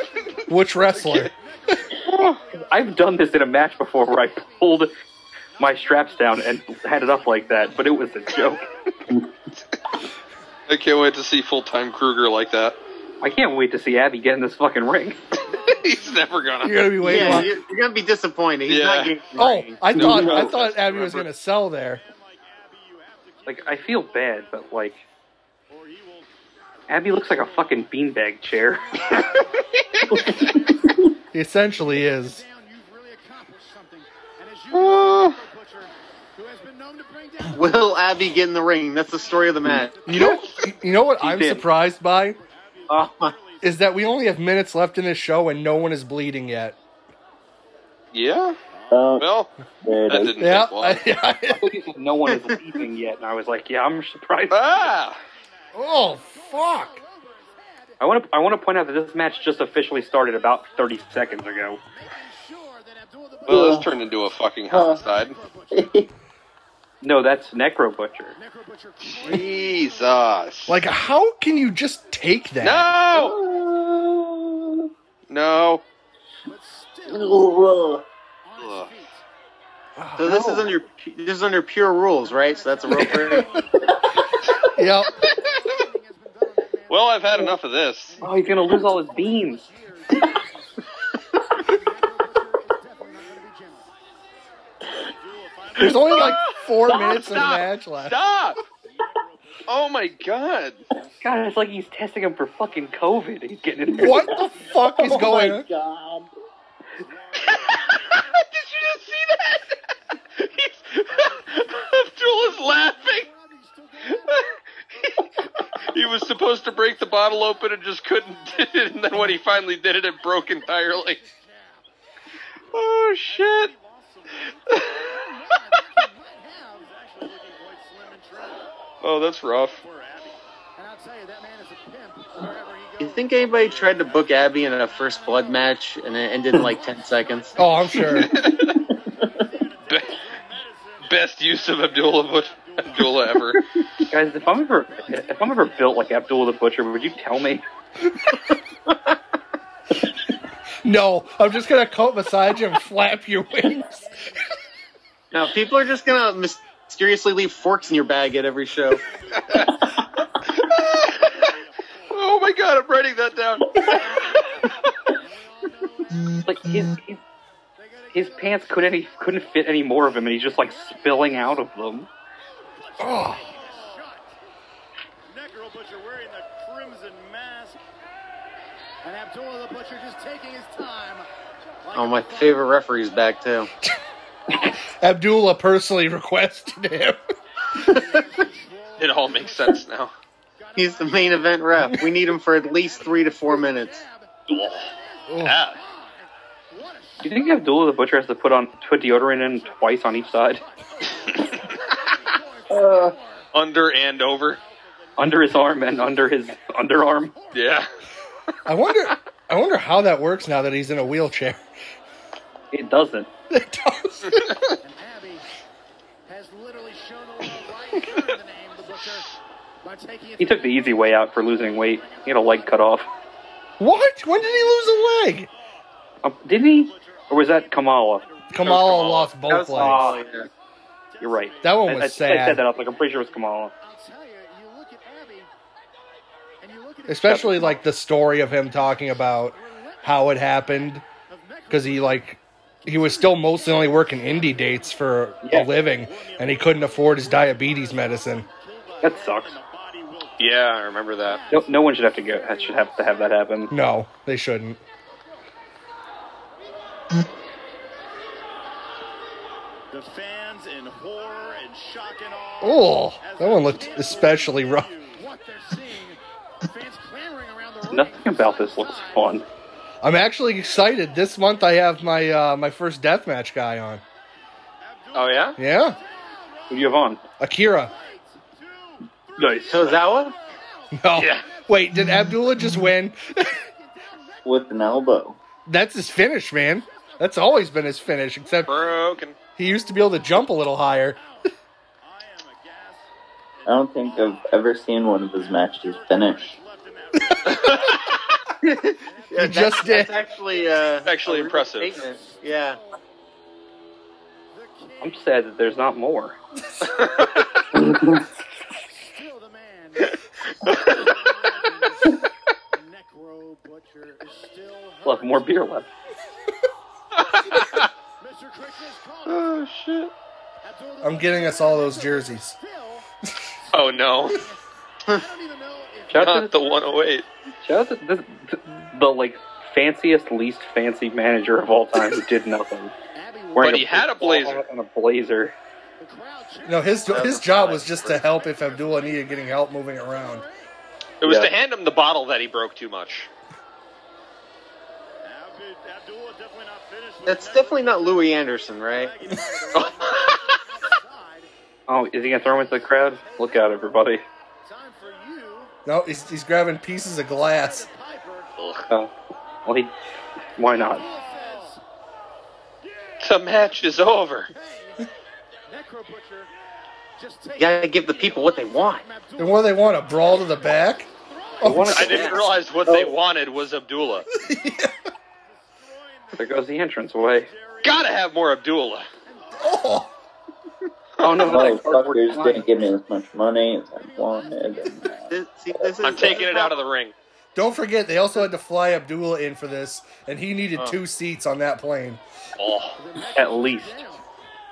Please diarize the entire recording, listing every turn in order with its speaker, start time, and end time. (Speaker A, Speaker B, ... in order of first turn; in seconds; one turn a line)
Speaker A: 0.5-1.3
Speaker B: 2.1-2.4
Speaker C: 2.6-4.9
Speaker C: 5.6-8.7
Speaker B: 10.7-12.8
Speaker C: 13.2-15.2
Speaker B: 15.5-17.5
Speaker A: 16.6-17.5
Speaker D: 17.0-19.8
Speaker B: 18.7-19.1
Speaker A: 19.4-22.0
Speaker B: 19.9-21.3
Speaker E: 22.1-23.9
Speaker C: 23.5-25.0
Speaker E: 25.7-26.3
Speaker C: 26.9-29.3
Speaker F: 29.1-29.4
Speaker G: 30.3-30.6
Speaker A: 31.3-32.4
Speaker F: 31.8-38.0
Speaker B: 34.7-35.4
Speaker D: 37.5-40.0
Speaker F: 39.0-40.8
Speaker A: 40.1-42.4
Speaker C: 41.2-41.7
Speaker E: 42.5-43.8
Speaker C: 42.9-43.2
Speaker A: 43.6-46.8
Speaker B: 48.1-48.6
Speaker G: 48.9-49.3
Speaker B: 49.2-49.5
Speaker G: 49.8-50.4
Speaker B: 50.1-51.0
Speaker A: 50.4-51.7
Speaker C: 51.5-54.8
Speaker D: 52.3-52.6
Speaker B: 54.5-55.2
Speaker A: 55.8-57.0
Speaker F: 55.8-58.0
Speaker C: 58.0-61.8
Speaker F: 60.4-65.9
Speaker B: 63.5-65.4
Speaker G: 63.5-63.9
Speaker G: 64.7-65.1
Speaker G: 65.7-66.1
Speaker C: 67.0-68.4
Speaker F: 68.4-70.1
Speaker B: 69.0-70.7
Speaker A: 70.7-72.9
Speaker B: 72.6-73.4
Speaker G: 73.1-74.9
Speaker B: 75.3-75.8
Speaker F: 76.5-77.7
Speaker G: 77.1-78.0
Speaker F: 78.5-79.2
Speaker B: 78.6-78.9
Speaker A: 80.0-80.7
Speaker D: 80.2-83.5
Speaker F: 82.3-87.5
Speaker A: 82.9-83.5
Speaker A: 84.8-85.1
Speaker B: 85.3-85.8
Speaker B: 86.9-88.2
Speaker F: 88.2-90.8
Speaker C: 88.2-89.7
Speaker F: 91.5-93.9
Speaker E: 95.2-96.5
Speaker A: 95.8-98.2
Speaker B: 95.9-98.6
Speaker E: 99.3-99.6
Speaker B: 99.7-100.8
Speaker C: 101.2-104.3
Speaker A: 104.0-105.7
Speaker G: 104.0-106.3
Speaker E: 107.1-107.9
Speaker B: 107.4-109.8
Speaker B: 110.3-113.3
Speaker F: 111.0-114.5
Speaker B: 114.1-121.2
Speaker F: 121.0-121.8
Speaker B: 122.7-123.7
Speaker E: 123.4-124.3
Speaker B: 124.7-125.2
Speaker F: 125.0-126.9
Speaker E: 126.8-128.7
Speaker B: 129.0-129.8
Speaker E: 129.8-130.4
Speaker F: 130.8-135.9
Speaker D: 133.0-137.6
Speaker F: 136.5-136.9
Speaker A: 137.6-138.4
Speaker B: 138.0-138.8
Speaker F: 138.3-140.0
Speaker E: 139.8-143.1
Speaker B: 139.9-140.2
Speaker B: 141.1-143.6
Speaker C: 144.1-147.7
Speaker A: 148.2-148.6
Speaker A: 150.8-154.2
Speaker D: 155.3-159.0
Speaker F: 159.3-159.7
Speaker B: 159.4-161.4
Speaker B: 162.1-164.6
Speaker F: 163.8-164.5
Speaker F: 165.6-166.4
Speaker C: 166.3-167.2
Speaker F: 167.8-169.1
Speaker C: 168.1-172.1
Speaker F: 172.8-174.3
Speaker A: 173.0-173.4
Speaker E: 173.5-173.9
Speaker E: 175.3-177.8
Speaker F: 179.0-181.3
Speaker F: 181.9-182.7
Speaker D: 181.9-183.7
Speaker A: 185.0-187.2
Speaker A: 187.8-188.0
Speaker F: 187.8-189.8
Speaker B: 189.0-190.1
Speaker F: 190.6-192.1
Speaker D: 190.8-194.0
Speaker F: 192.6-194.3
Speaker B: 194.5-194.9
Speaker F: 194.8-196.2
Speaker A: 195.3-195.6
Speaker B: 195.4-195.8
Speaker F: 196.7-197.6
Speaker C: 197.2-200.6
Speaker F: 199.4-203.5
Speaker B: 201.1-201.8
Speaker G: 202.7-203.2
Speaker B: 203.5-204.6
Speaker C: 205.2-207.3
Speaker B: 207.5-207.9
Speaker A: 208.7-211.6
Speaker C: 212.7-213.3
Speaker A: 213.5-214.5
Speaker B: 214.3-214.7
Speaker F: 214.8-215.5
Speaker F: 216.2-220.8
Speaker C: 220.4-223.1
Speaker F: 221.6-222.6
Speaker A: 223.8-225.5
Speaker C: 226.2-228.2
Speaker E: 226.7-227.5
Speaker E: 228.2-229.2
Speaker A: 228.5-230.1
Speaker B: 228.7-229.0
Speaker D: 229.5-230.5
Speaker C: 229.7-230.2
Speaker E: 231.2-231.8
Speaker C: 231.2-233.7
Speaker A: 231.6-232.6
Speaker F: 233.8-235.5
Speaker F: 236.6-237.8
Speaker A: 237.1-241.0
Speaker C: 237.3-237.7
Speaker F: 238.6-240.1
Speaker F: 241.3-242.2
Speaker A: 241.7-248.5
Speaker F: 242.8-245.0
Speaker C: 245.4-245.7
Speaker E: 246.1-247.0
Speaker F: 247.2-248.3
Speaker E: 248.7-250.7
Speaker C: 249.0-249.6
Speaker B: 250.4-251.4
Speaker F: 251.3-251.7
Speaker C: 251.5-253.7
Speaker F: 252.4-252.8
Speaker A: 253.7-254.8
Speaker E: 259.9-265.1
Speaker A: 262.6-264.9
Speaker F: 263.9-264.3
Speaker F: 265.1-269.4
Speaker C: 267.9-269.5
Speaker A: 270.0-274.0
Speaker E: 274.9-275.5
Speaker B: 275.1-275.6
Speaker A: 275.6-276.0
Speaker C: 276.7-277.2
Speaker A: 277.4-277.9
Speaker F: 277.9-278.4
Speaker F: 279.4-279.9
Speaker C: 279.4-280.0
Speaker D: 279.7-280.4
Speaker F: 280.6-281.0
Speaker A: 281.0-283.5
Speaker B: 281.1-281.4
Speaker F: 281.6-281.9
Speaker F: 283.4-284.9
Speaker G: 284.4-285.4
Speaker A: 285.7-288.9
Speaker B: 288.6-289.4
Speaker A: 289.6-291.2
Speaker E: 292.0-293.1
Speaker E: 293.7-294.5
Speaker G: 293.7-296.6
Speaker E: 295.4-298.0
Speaker B: 297.5-298.2
Speaker D: 298.6-302.8
Speaker A: 299.4-300.2
Speaker B: 301.1-302.0
Speaker F: 302.1-302.8
Speaker F: 304.5-305.6
Speaker C: 305.0-306.4
Speaker B: 306.8-307.4
Speaker G: 307.8-308.2
Speaker F: 309.0-312.2
Speaker B: 310.6-311.2
Speaker F: 312.7-315.6
Speaker C: 315.0-315.9
Speaker B: 317.1-317.9
Speaker F: 317.8-319.6
Speaker B: 319.3-320.1
Speaker F: 320.6-323.1
Speaker A: 321.0-322.6
Speaker F: 323.6-324.6
Speaker B: 323.7-324.4
Speaker F: 325.1-326.3
Speaker C: 326.1-326.5
Speaker B: 326.1-327.3
Speaker C: 327.6-332.9
Speaker F: 333.1-333.9
Speaker C: 333.5-335.6
Speaker B: 333.6-334.6
Speaker F: 336.0-339.5
Speaker A: 336.6-340.4
Speaker D: 337.1-338.2
Speaker B: 341.2-343.3
Speaker C: 341.2-341.5
Speaker E: 345.2-348.2
Speaker D: 347.3-349.1
Speaker E: 349.0-350.1
Speaker F: 349.3-351.5
Speaker B: 349.7-350.6
Speaker C: 351.9-354.2
Speaker F: 353.2-355.7
Speaker A: 355.9-357.9
Speaker F: 357.4-358.5
Speaker B: 358.6-358.9
Speaker C: 359.7-359.9
Speaker C: 360.6-361.0
Speaker F: 360.7-361.8
Speaker B: 363.2-364.5
Speaker F: 364.5-365.0
Speaker F: 365.7-366.5
Speaker F: 367.2-372.4
Speaker D: 367.6-369.1
Speaker A: 369.4-371.1
Speaker A: 371.6-372.3
Speaker C: 371.6-372.4
Speaker B: 371.9-374.3
Speaker G: 372.9-373.1
Speaker A: 374.4-374.9
Speaker C: 376.4-377.5
Speaker E: 377.5-378.2
Speaker B: 377.8-379.1
Speaker F: 379.3-379.6
Speaker A: 379.6-380.1
Speaker B: 381.2-381.6
Speaker C: 381.2-382.7
Speaker G: 381.4-385.3
Speaker F: 383.9-385.0
Speaker D: 385.3-386.7
Speaker B: 386.0-387.1
Speaker A: 387.6-392.2
Speaker B: 392.6-393.0
Speaker F: 393.0-394.2
Speaker C: 393.4-394.0